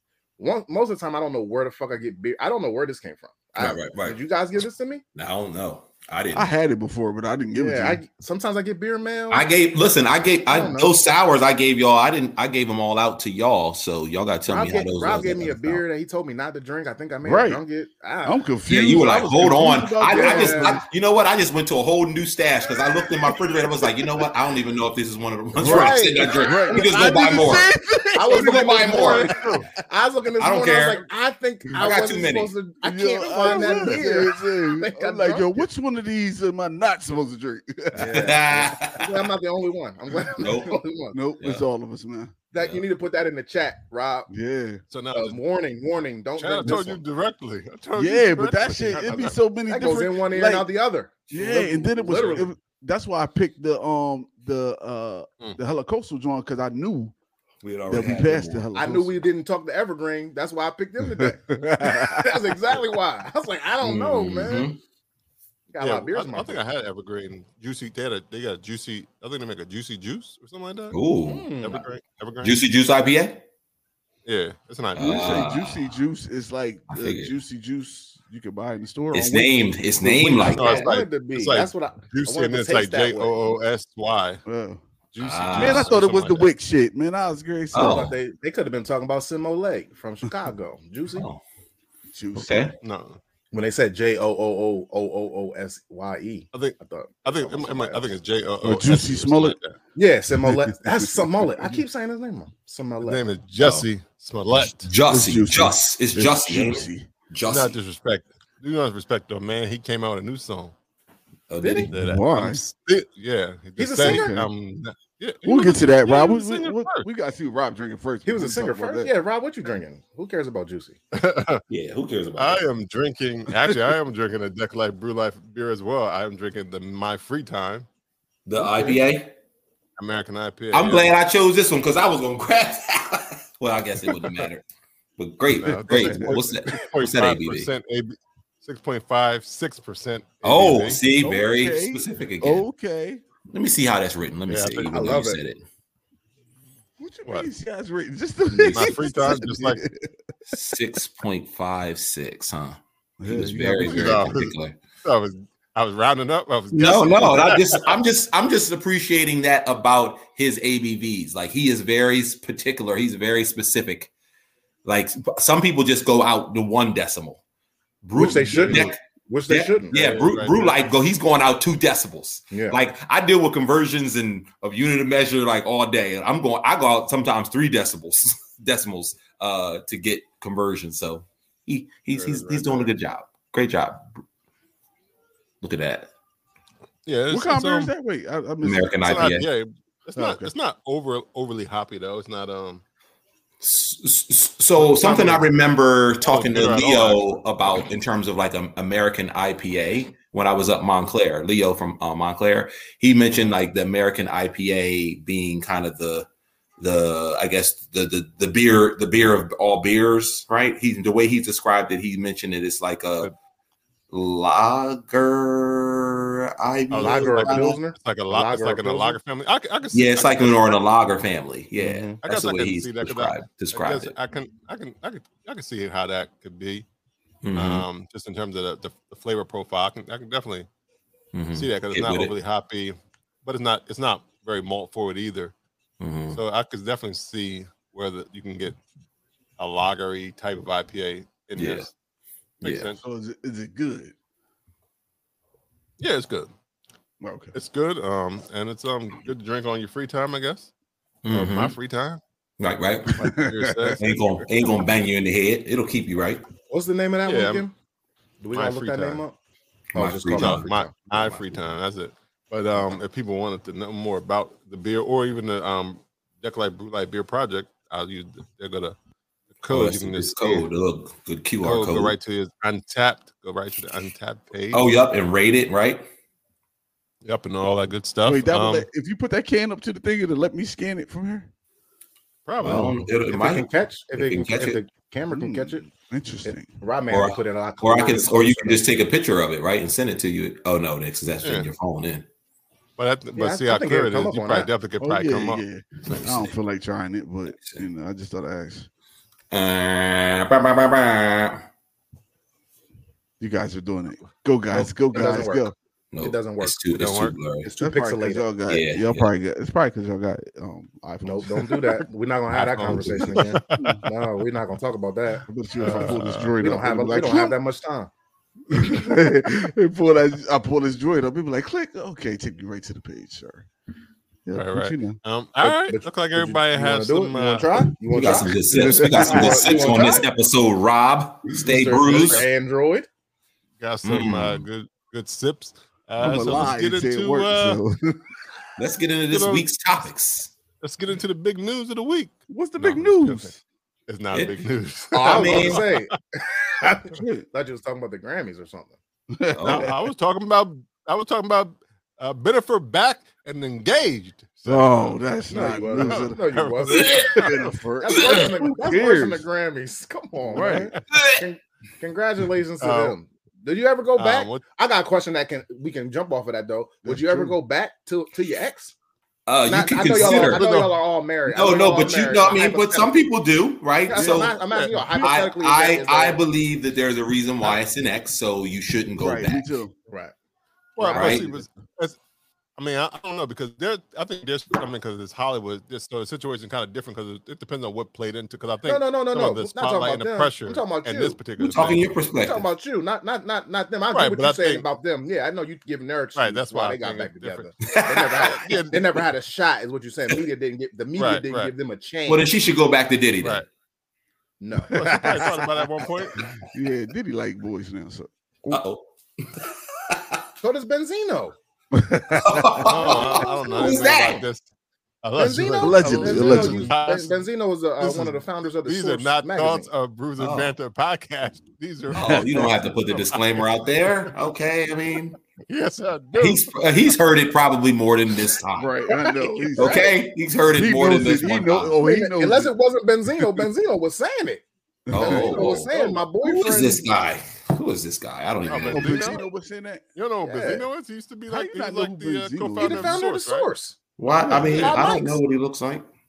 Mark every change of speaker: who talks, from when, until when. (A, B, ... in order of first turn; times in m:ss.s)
0:00.4-0:05.0 A
0:03.6-0:04.2 B
0:05.1-0:06.5 B
0:06.3-0:08.0 C
0:07.5-0:09.4 A
0:09.3-0:15.8 B
0:10.5-0:10.9 A
0:14.5-0:18.4 A
0:17.2-0:17.6 C
0:18.2-0:20.8 C
0:18.7-0:27.7 B
0:20.2-0:20.8 A
0:25.6-0:29.2 C
0:25.6-0:27.4 A
0:28.1-0:35.6 A
0:28.3-0:29.3 B
0:28.9-0:29.7 D
0:30.4-0:31.0 B
0:31.7-0:32.5 B
0:32.8-0:38.8 C
0:33.4-0:34.0 D
0:37.9-0:41.1 A
0:38.0-0:39.2 B
0:40.4-0:40.8 B
0:41.1-0:42.3 C
0:42.5-0:44.3 A
0:44.3-0:44.8 C
0:44.9-0:45.4 D
0:45.1-0:47.0 A
0:46.4-0:49.4 D
0:47.9-0:50.7 C
0:49.7-0:52.5 A
0:51.3-0:57.1 C
0:52.1-0:52.4 D
0:57.6-0:58.6 B
0:57.9-0:59.2 C
0:58.7-1:04.7 A
1:01.0-1:02.3 C
1:03.8-1:04.8 B
1:05.7-1:06.6 A
1:05.8-1:11.0 D
1:10.9-1:11.5 B
1:11.3-1:11.8 A
1:11.6-1:12.6 D
1:12.4-1:13.4 B
1:14.2-1:15.4 D
1:14.9-1:15.9 B
1:15.0-1:19.8 C
1:16.9-1:17.3 B
1:19.1-1:20.9 B
1:20.0-1:23.5 A
1:20.5-1:24.4 D
1:24.4-1:24.8 C
1:25.1-1:26.5 D
1:25.2-1:25.9 B
1:25.5-1:28.0 C
1:27.7-1:28.2 B
1:27.7-1:31.3 A
1:31.1-1:31.4 B
1:32.1-1:32.7 C
1:32.4-1:32.7 B
1:32.8-1:33.2 D
1:33.5-1:38.1 A
1:36.5-1:39.8 D
1:38.6-1:39.6 C
1:39.9-1:43.2 A
1:40.4-1:41.7 C
1:43.0-1:44.9 D
1:43.6-1:43.9 B
1:44.6-1:47.8 B
1:45.1-1:47.1 C
1:47.5-1:50.7 D
1:51.5-1:51.9 B
1:51.6-1:51.9 A
1:51.9-1:57.1 D
1:52.0-1:52.6 C
1:53.8-1:54.4 A
1:54.0-1:54.5 C
1:55.4-1:59.1 C
1:58.2-2:01.0 A
2:01.1-2:01.6 D
2:01.7-2:02.6 B
2:02.4-2:07.8 D
2:08.4-2:09.3 B
2:10.0-2:11.1 D
2:10.7-2:14.6 B
2:15.2-2:17.7 B
2:15.5-2:21.0 D
2:15.9-2:16.4 C
2:20.4-2:22.6 B
2:21.2-2:23.2 C
2:23.5-2:25.6 B
2:24.5-2:25.1 D
2:24.9-2:25.4 A
2:27.0-2:30.2 C
2:28.5-2:29.2 B
2:28.7-2:29.8 D
2:30.5-2:34.7 B
2:33.2-2:34.3 C
2:33.8-2:38.0 D
2:36.7-2:44.1 B
2:44.8-2:47.4 B
2:48.0-3:04.2 B
2:48.1-2:50.0 A
2:49.9-2:50.8 D
2:52.5-2:52.8 A
3:02.1-3:02.9 D
3:05.6-3:06.1 B
3:07.0-3:07.9 D
3:07.3-3:09.0 C
3:08.6-3:09.5 B
3:09.0-3:12.8 D
3:10.1-3:10.5 C
3:13.6-3:26.3 B
3:14.8-3:15.5 D
3:16.2-3:17.3 D
3:23.3-3:23.6 D
3:26.8-3:33.3 B
3:34.1-3:37.7 B
3:36.9-3:40.7 D
3:37.0-3:39.2 A
3:39.9-3:44.1 B
3:41.8-3:42.2 A
3:42.2-3:46.8 D
3:47.4-3:47.8 B
3:47.5-3:50.7 D
3:51.3-3:52.3 B
3:51.5-3:55.5 D
3:56.0-3:56.4 B
3:56.3-3:58.8 D
3:59.6-4:01.9 D
4:01.6-4:01.9 B
4:02.6-4:03.0 D
4:02.6-4:02.9 B
4:03.0-4:04.1 C
4:06.0-4:06.5 D
4:07.2-4:07.5 C
4:07.5-4:10.7 D
4:11.2-4:11.7 B
4:11.3-4:12.2 D
4:12.6-4:13.2 B
4:13.1-4:14.0 D
4:13.1-4:14.4 C
4:14.0-4:16.4 B
4:16.7-4:17.7 A
4:17.2-4:17.6 D
4:18.4-4:19.3 A
4:18.5-4:19.2 D
4:19.9-4:20.9 A
4:19.9-4:20.7 B
4:20.3-4:29.0 D
4:29.6-4:30.7 D
4:29.7-4:32.1 B
4:31.6-4:34.9 D
4:34.7-4:36.1 B
4:37.2-4:38.8 D
4:38.2-4:41.5 C
4:42.5-4:43.1 D
4:42.6-4:44.8 B
4:43.3-4:45.8 A
4:45.3-4:46.7 C
4:46.4-4:48.8 A
4:47.1-4:52.2 B
4:51.4-4:51.7 D
4:53.0-4:56.3 D
4:53.3-4:54.7 A
4:55.0-4:58.9 C
4:56.1-4:56.5 B
4:57.5-4:57.8 B
4:59.5-5:01.6 B
5:03.4-5:05.7 C
5:04.7-5:06.8 A
5:06.1-5:07.7 B
5:06.9-5:07.4 D
5:07.6-5:08.5 A
5:07.8-5:12.0 C
5:08.7-5:09.3 B
5:11.2-5:18.1 A
5:12.5-5:14.0 D
5:12.8-5:14.0 C
5:15.4-5:17.6 C
5:15.8-5:16.6 D
5:18.7-5:23.7 C
5:24.4-5:25.2 C
5:24.5-5:27.8 D
5:25.6-5:30.2 A
5:28.1-5:32.4 B
5:28.7-5:29.8 C
5:31.7-5:33.1 A
5:32.0-5:32.5 D
5:33.8-5:37.8 D
5:34.0-5:34.6 B
5:36.2-5:38.2 C
5:38.8-5:40.5 B
5:39.3-5:39.7 D
5:40.8-5:43.5 D
5:42.5-5:43.6 C
5:44.1-5:46.2 D
5:44.3-5:44.6 B
5:45.1-5:49.0 A
5:45.2-5:45.8 B
5:47.1-5:47.4 C
5:49.3-5:49.9 C
5:49.5-5:49.9 B
5:49.6-5:57.7 D
5:54.6-5:56.4 C
5:55.5-5:57.2 A
5:56.9-5:57.4 B
5:57.2-5:59.4 C
5:58.0-6:08.9 A
5:58.2-5:58.5 B
6:00.5-6:00.9 C
6:00.5-6:01.0 D
6:01.1-6:01.4 B
6:02.8-6:03.1 D
6:04.2-6:04.6 D
6:07.0-6:07.5 C
6:09.5-6:10.6 B
6:09.7-6:13.2 A
6:10.2-6:10.9 D
6:11.5-6:14.6 B
6:14.1-6:16.4 A
6:14.2-6:15.2 C
6:14.6-6:15.0 D
6:15.2-6:19.7 B
6:19.2-6:19.9 C
6:21.0-6:22.2 D
6:21.0-6:21.4 A
6:21.1-6:21.4 B
6:22.8-6:32.1 D
6:28.8-6:31.4 A
6:31.6-6:32.7 B
6:32.3-6:42.5 A
6:34.1-6:34.8 D
6:36.4-6:37.7 D
6:37.8-6:38.6 B
6:38.4-6:39.2 D
6:41.2-6:41.7 D
6:42.3-6:43.6 B
6:44.6-6:45.4 A
6:44.9-6:45.7 C
6:44.9-6:46.4 D
6:46.4-6:48.8 C
6:48.7-6:50.4 B
6:50.6-6:51.6 A
6:51.9-6:53.1 C
6:52.3-6:54.4 B
6:52.8-6:54.7 D
6:53.3-6:54.4 A
6:55.2-6:57.4 D
6:55.4-6:59.9 A
6:55.8-6:56.9 C
6:58.0-7:03.8 D
7:00.4-7:00.7 B
7:02.1-7:05.4 B
7:02.2-7:02.7 C
7:05.7-7:06.7 D
7:06.4-7:09.0 B
7:08.8-7:10.2 C
7:09.7-7:11.9 B
7:10.7-7:12.7 C
7:12.0-7:17.0 A
7:15.1-7:16.0 C
7:15.1-7:19.4 B
7:18.7-7:19.4 D
7:18.9-7:20.0 C
7:20.2-7:23.7 D
7:20.4-7:20.8 A
7:21.5-7:23.2 C
7:22.8-7:24.0 A
7:24.2-7:26.1 B
7:24.4-7:25.0 C
7:24.6-7:25.4 A